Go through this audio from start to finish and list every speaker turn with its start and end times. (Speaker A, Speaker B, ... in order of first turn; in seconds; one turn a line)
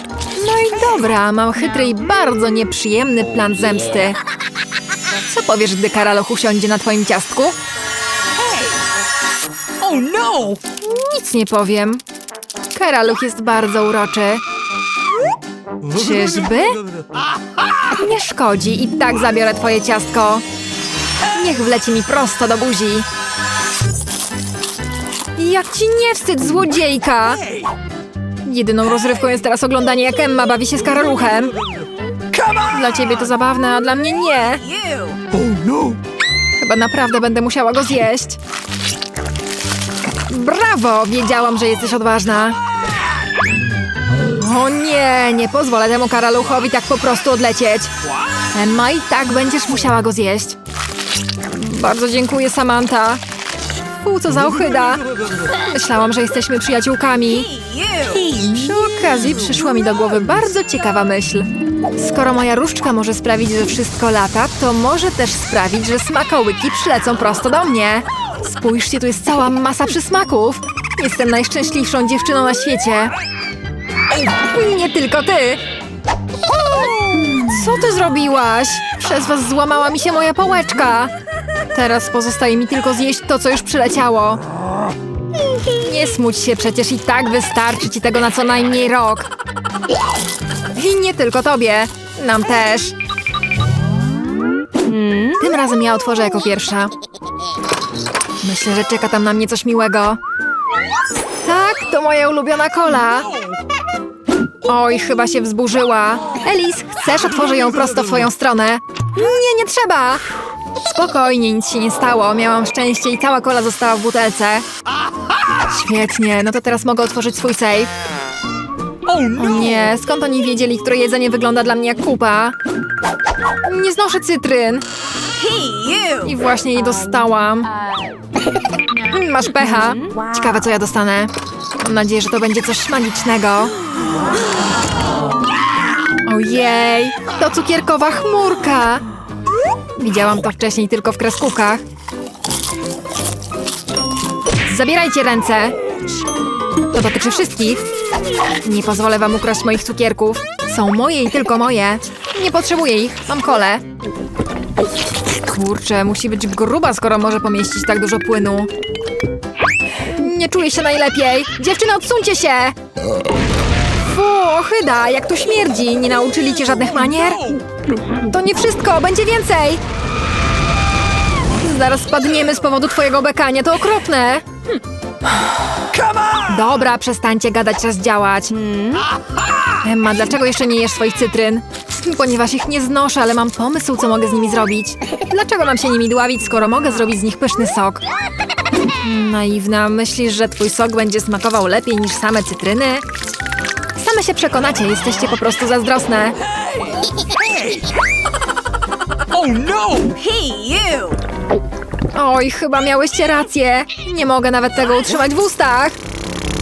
Speaker A: 0.3-4.2
Speaker A: 5.2-7.5
Speaker B: 8.3-8.8
Speaker B: 9.8-10.6
Speaker A: 10.8-12.0
Speaker A: 12.7-14.4
Speaker A: 15.8-16.8
Speaker A: 17.9-20.4
Speaker A: 21.3-23.1
Speaker A: 25.4-27.5
Speaker A: 28.4-31.6
Speaker B: 32.3-32.6
Speaker A: 32.5-34.6
Speaker B: 34.6-36.0
Speaker A: 36.6-38.4
Speaker A: 40.3-42.6
Speaker A: 44.1-47.9
Speaker A: 48.5-50.6
Speaker A: 51.5-53.2
Speaker A: 54.0-57.5
Speaker B: 57.2-58.4
Speaker A: 58.1-73.1
Speaker A: 74.1-75.6
Speaker A: 77.1-81.1
Speaker A: 81.7-84.4
Speaker A: 85.7-89.3
Speaker A: 90.7-92.9
Speaker B: 94.8-95.4
Speaker A: 95.4-96.9
Speaker A: 98.4-100.2
Speaker A: 101.4-103.3
Speaker A: 104.7-110.2
Speaker A: 110.8-114.7
Speaker A: 115.7-117.9
Speaker A: 119.2-122.5
Speaker A: 123.6-124.8
Speaker B: 125.3-126.4
Speaker A: 126.2-127.8
Speaker A: 128.9-133.8
Speaker B: 129.8-130.2
Speaker A: 136.2-139.0
Speaker A: 140.0-141.8
Speaker A: 144.7-145.8
Speaker A: 146.9-147.9
Speaker A: 148.6-153.8
Speaker A: 155.5-158.7
Speaker A: 160.0-162.8
Speaker A: 164.0-169.8
Speaker A: 171.5-174.4
Speaker B: 175.9-176.4
Speaker A: 176.4-178.5
Speaker B: 178.5-179.1
Speaker A: 179.8-188.0
Speaker A: 189.0-193.0
Speaker A: 193.9-196.4
Speaker B: 197.2-197.9
Speaker B: 199.3-201.2
Speaker A: 202.1-206.0